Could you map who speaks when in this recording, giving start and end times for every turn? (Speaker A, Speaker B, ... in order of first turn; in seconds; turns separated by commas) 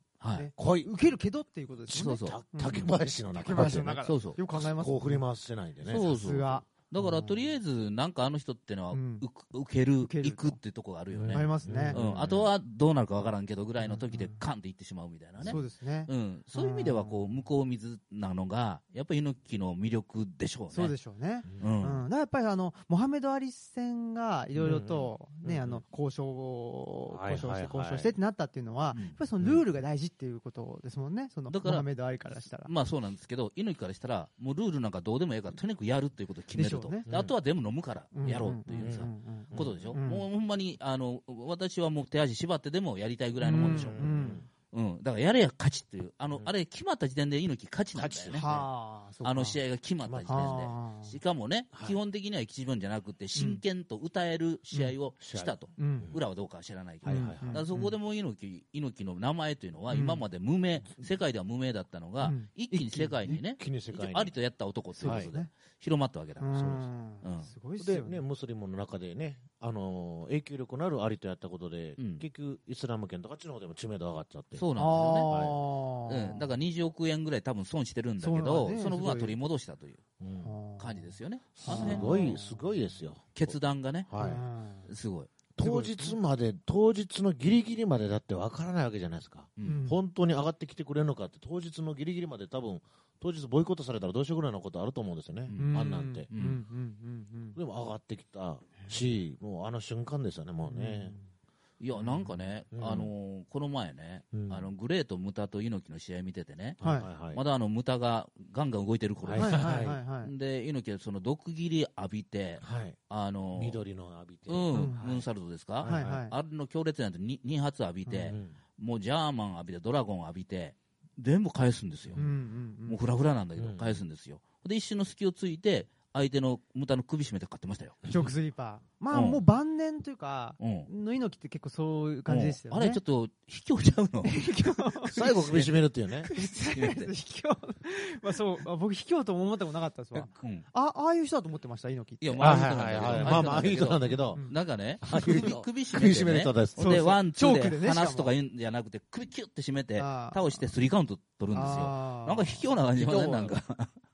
Speaker A: 0.2-0.5, Speaker B: 0.3-5.2, Speaker C: 0.6-0.9, Speaker A: 1.9-2.4, Speaker C: 2.2-6.0, Speaker A: 3.5-4.4, Speaker A: 5.8-20.9, Speaker B: 5.9-7.5, Speaker B: 8.9-9.2, Speaker B: 10.0-10.6, Speaker C: 11.1-12.5, Speaker B: 11.3-12.0, Speaker B: 13.8-14.4, Speaker B: 15.4-17.3, Speaker B: 20.7-32.7, Speaker A: 21.6-22.1, Speaker C: 24.6-25.8, Speaker C: 27.1-28.1, Speaker A: 31.5-31.9, Speaker A: 32.6-44.1, Speaker B: 36.5-37.1, Speaker C: 37.1-37.3, Speaker B: 38.1-40.3, Speaker C: 38.3-40.0, Speaker B: 43.4-44.4, Speaker C: 43.5-44.5, Speaker A: 44.7-48.5, Speaker C: 47.9-48.7, Speaker B: 48.3-49.6, Speaker A: 49.2-67.5, Speaker C: 50.0-50.6, Speaker B: 50.3-51.2, Speaker C: 51.7-52.0, Speaker B: 53.4-53.6, Speaker C: 55.2-56.2, Speaker B: 55.8-56.1, Speaker C: 57.0-57.6, Speaker B: 57.1-58.0, Speaker B: 59.9-60.2, Speaker B: 62.2-63.4, Speaker C: 63.4-64.3, Speaker B: 65.0-65.5, Speaker C: 65.0-65.3, Speaker B: 66.4-68.2, Speaker C: 66.6-66.8, Speaker C: 67.8-74.7, Speaker A: 72.0-72.2, Speaker A: 74.6-75.3, Speaker B: 74.8-76.5, Speaker C: 75.2-75.6, Speaker A: 76.1-80.0, Speaker B: 78.2-79.4, Speaker C: 80.2-80.5, Speaker B: 80.4-82.8, Speaker A: 80.8-82.3, Speaker C: 81.6-83.5, Speaker A: 83.4-84.2, Speaker C: 84.1-84.4, Speaker B: 84.2-84.9, Speaker A: 84.9-85.3, Speaker C: 85.6-96.3, Speaker B: 85.6-86.2, Speaker B: 89.7-90.0, Speaker A: 95.5-96.6, Speaker B: 95.5-97.6, Speaker C: 97.6-101.2, Speaker B: 100.7-101.2, Speaker A: 101.8-113.8, Speaker C: 102.7-103.1, Speaker C: 104.3-104.7, Speaker C: 106.8-107.4, Speaker B: 106.8-107.1, Speaker C: 109.2-110.0, Speaker B: 109.4-110.3, Speaker C: 112.6-113.0, Speaker C: 113.5-115.2, Speaker A: 114.5-122.2, Speaker B: 114.7-115.2, Speaker C: 115.8-116.2, Speaker B: 115.8-116.3, Speaker B: 118.1-118.3, Speaker C: 118.3-118.6, Speaker B: 122.2-123.0, Speaker A: 122.9-128.2, Speaker C: 123.6-124.0, Speaker B: 128.1-133.0, Speaker A: 129.1-129.4, Speaker A: 130.6-130.9, Speaker A: 132.3-137.1, Speaker B: 134.2-135.2, Speaker C: 135.1-136.3, Speaker B: 136.3-143.6, Speaker A: 140.3-140.7, Speaker A: 142.2-153.9, Speaker C: 142.4-144.4, Speaker B: 144.1-144.6, Speaker C: 145.0-147.0, Speaker B: 146.8-148.3, Speaker B: 150.0-150.6, Speaker B: 151.5-152.7, Speaker C: 152.9-153.6